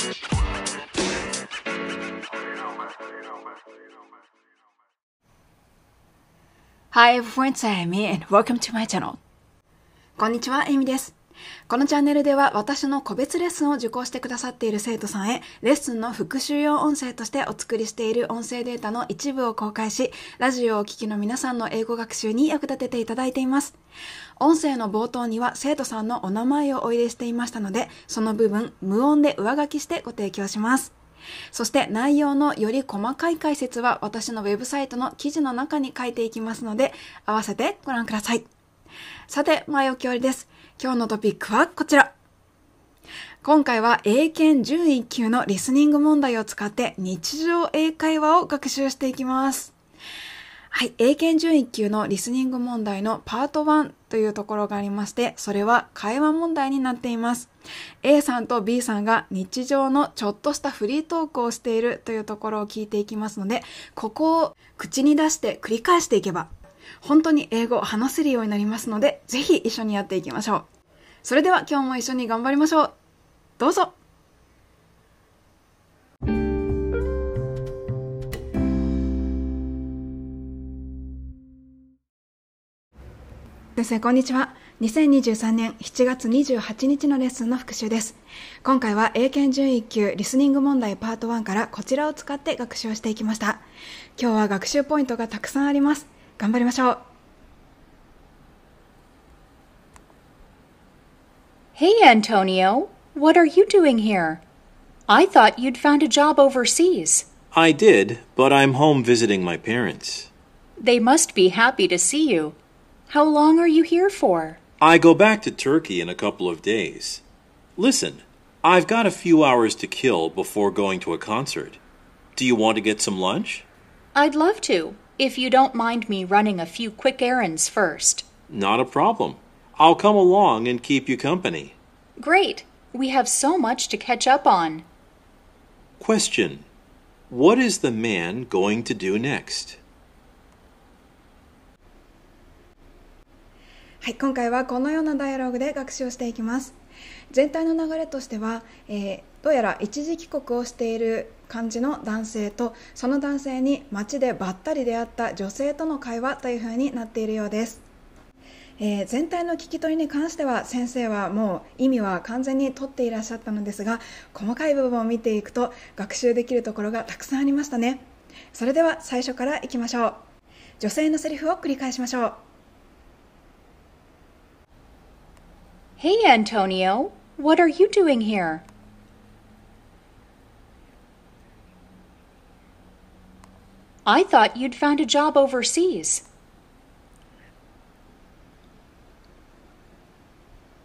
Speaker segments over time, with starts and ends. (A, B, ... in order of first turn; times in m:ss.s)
0:06.9-0:09.2 A
0:10.2-0:11.1 A
0:11.7-0:23.8 A
0:24.4-0:30.9 A
0:31.5-0:38.4 A
0:39.3-0:42.1 A
0:43.4-0:49.7 A
0:50.7-0:57.5 A
0:58.0-1:10.6 A
1:11.2-1:12.9 A
1:13.6-1:13.9 A
1:23.7-1:33.6 A
1:34.2-1:37.0 A
1:41.8-1:44.4 B
1:45.1-1:47.2 B
1:47.5-1:50.3 C
1:50.8-1:52.6 B
1:53.1-1:54.6 B
1:54.8-1:57.2 C
1:57.8-2:01.8 C
2:02.4-2:03.6 C
2:04.1-2:08.2 B
2:08.5-2:11.8 C
2:12.2-2:14.8 B
2:16.0-2:16.6 C
2:17.3-2:19.8 C
2:24.0-2:26.7 A
2:27.3-2:37.8 A
2:38.8-2:50.2 A
2:50.8-2:52.4 A
2:56.0-2:58.6 B
3:04.0-3:06.2 B